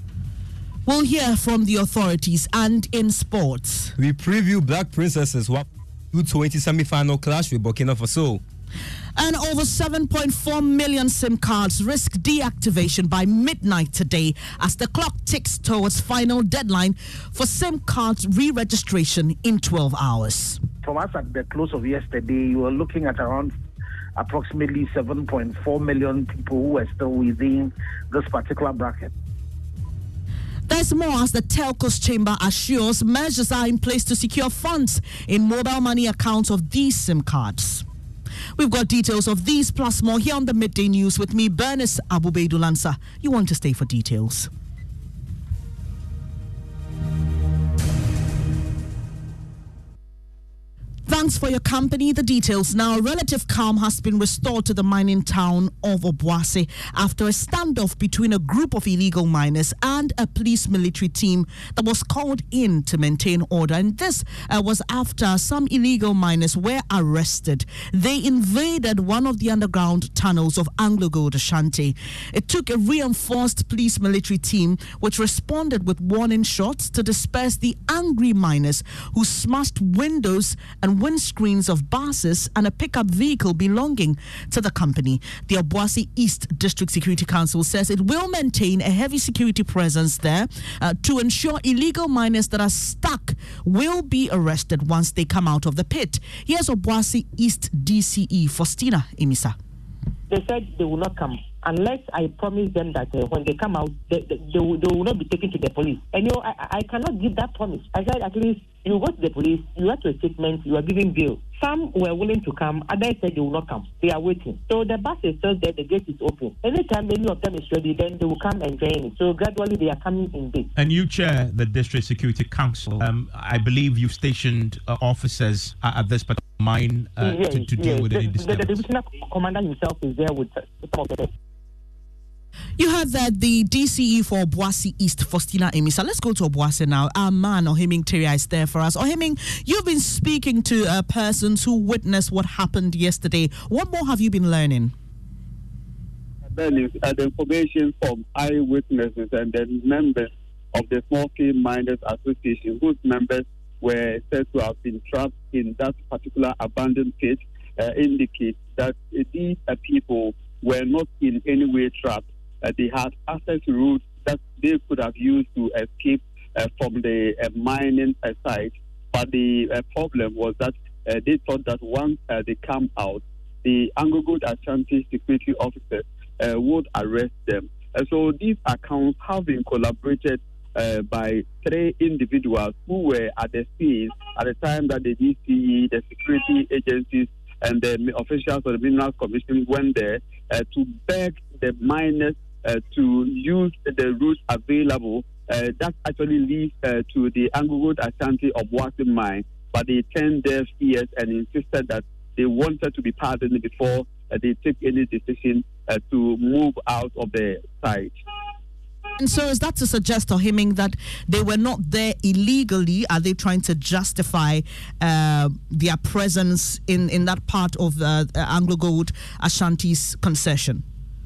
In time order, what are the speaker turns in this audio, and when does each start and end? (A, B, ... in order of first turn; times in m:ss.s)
0:00.8-0:03.9 A
0:04.0-0:08.4 B
0:09.2-0:20.6 A
0:20.8-0:23.5 C
0:24.2-0:29.1 C
0:30.7-0:37.8 A
0:38.6-0:44.5 A
0:51.1-1:39.6 A
1:40.3-2:00.7 D
2:00.8-2:08.8 E
2:07.2-2:11.3 D
2:12.8-2:24.9 A
2:26.5-3:28.2 F
3:29.2-3:40.8 A